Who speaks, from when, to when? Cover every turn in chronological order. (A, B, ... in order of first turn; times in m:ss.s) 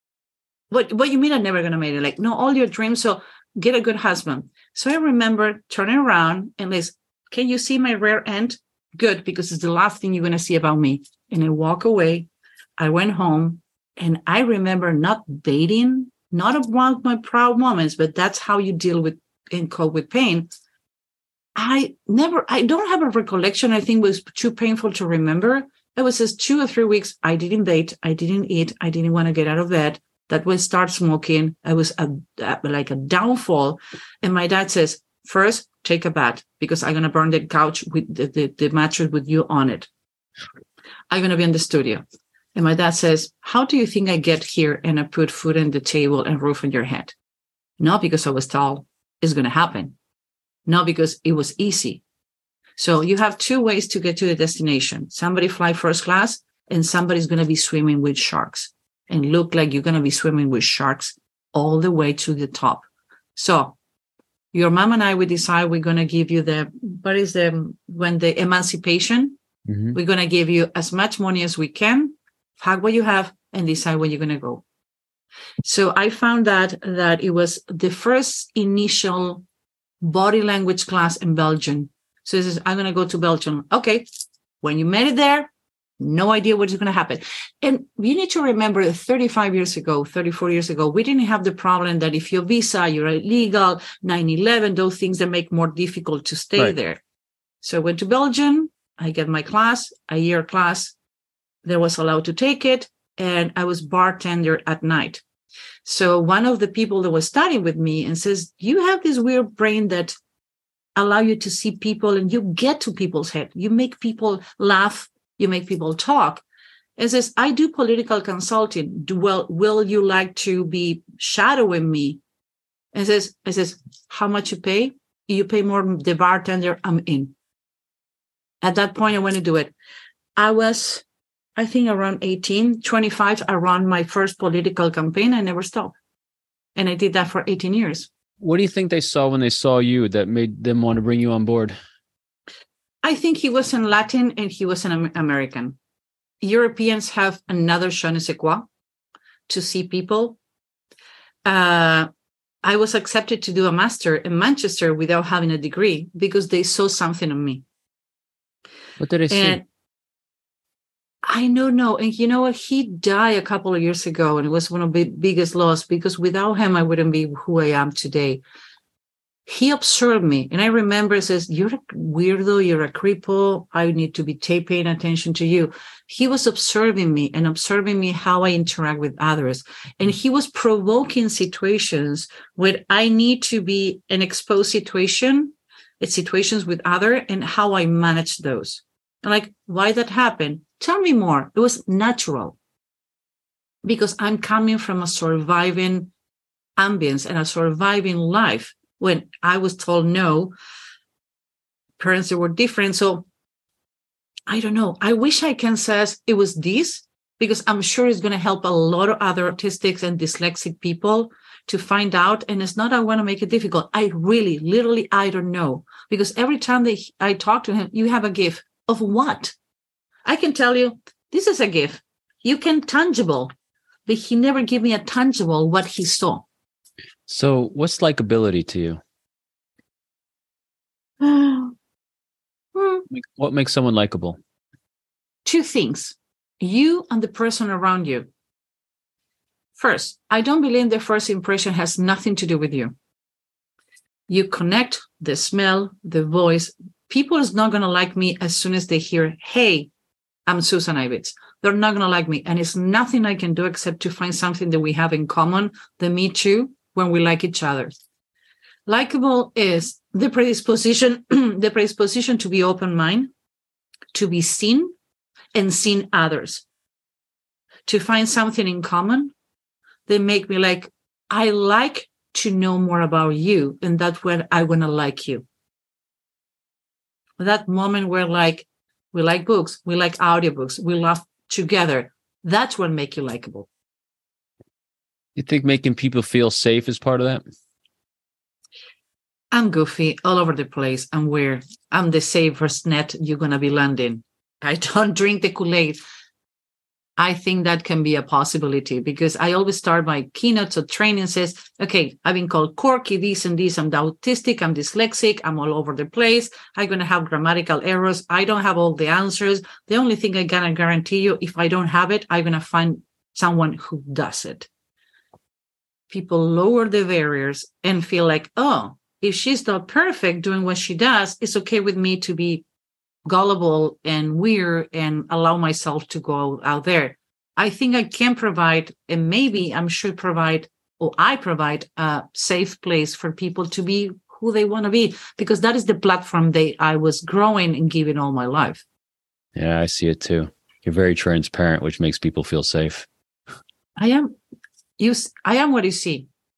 0:00.7-0:20.5 A
0:21.6-0:39.9 A
0:41.1-0:42.0 A
0:42.6-0:47.2 A
0:47.8-0:50.0 A
0:50.7-0:52.0 A
0:52.8-1:03.8 A
1:04.5-1:09.4 A
1:09.7-1:10.0 B
1:09.9-1:14.6 A
1:15.6-1:19.4 A
1:20.0-1:24.1 A
1:24.6-1:37.0 A
1:37.6-1:41.0 A
1:41.6-1:45.2 A
1:45.8-1:50.1 A
1:51.0-1:56.4 A
1:57.0-2:02.2 A
2:02.9-2:07.3 A
2:08.6-2:09.7 A
2:10.4-2:11.0 A
2:11.6-2:16.0 A
2:16.8-2:18.1 A
2:18.4-2:21.8 B
2:23.0-2:25.8 A
2:26.4-2:28.7 A
2:29.5-2:30.4 A
2:31.4-2:32.1 A
2:32.6-2:37.6 A
2:39.0-2:39.6 B
2:39.3-2:39.6 A
2:41.2-2:48.4 A
2:49.5-3:12.6 A
3:13.8-3:16.1 A
3:16.8-3:20.5 A
3:22.0-3:23.3 A
3:24.5-3:39.6 A
3:40.3-3:43.5 A
3:44.1-3:46.5 A
3:47.3-3:49.0 B
3:51.2-3:51.7 A
3:52.8-3:53.0 A
3:53.1-3:54.4 B
3:55.4-3:58.3 A
3:59.8-4:02.9 A
4:04.3-4:09.9 A
4:10.5-4:17.9 A
4:18.9-4:23.3 A
4:24.1-4:24.9 A
4:25.5-4:26.6 A
4:27.9-4:29.3 A
4:30.1-4:35.4 A
4:37.4-4:43.7 A
4:45.4-4:47.4 B
4:49.5-4:56.0 A
4:57.2-5:14.7 A
5:16.1-5:22.6 A
5:23.2-5:38.8 A
5:39.6-5:43.1 B
5:44.0-5:44.3 A
5:45.0-5:46.3 A